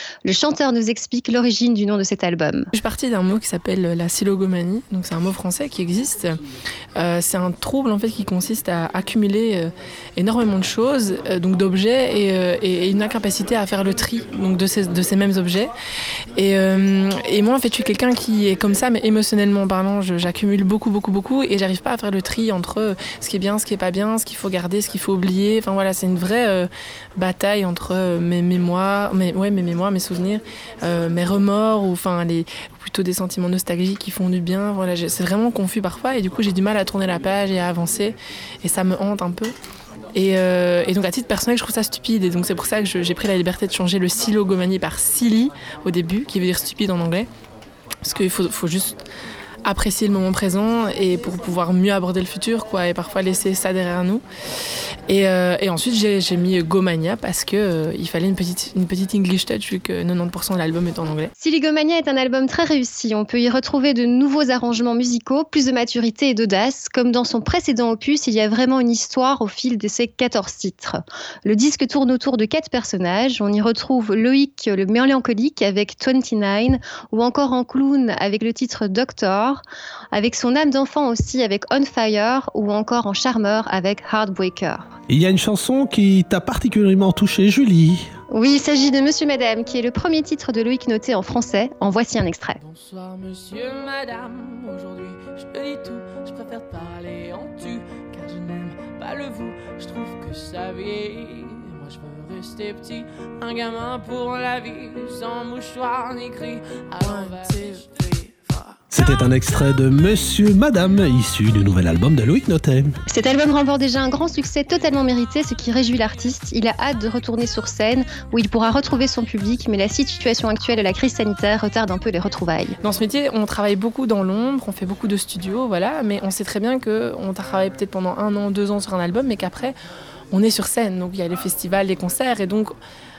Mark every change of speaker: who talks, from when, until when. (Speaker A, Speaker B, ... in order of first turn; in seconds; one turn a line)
Speaker A: 0.2-2.7
Speaker B: 2.7-6.4
Speaker B: 7.0-15.7
Speaker B: 16.4-39.5
Speaker B: 40.1-47.3
Speaker B: 48.0-49.0
Speaker B: 49.6-54.2
Speaker B: 55.1-61.3
Speaker A: 61.4-84.8
Speaker C: 85.1-88.1
Speaker A: 88.3-92.6
Speaker D: 92.6-108.0
Speaker B: 107.0-108.8
Speaker C: 108.9-112.9
Speaker A: 113.1-122.7
Speaker B: 122.8-129.8
Speaker B: 130.3-132.8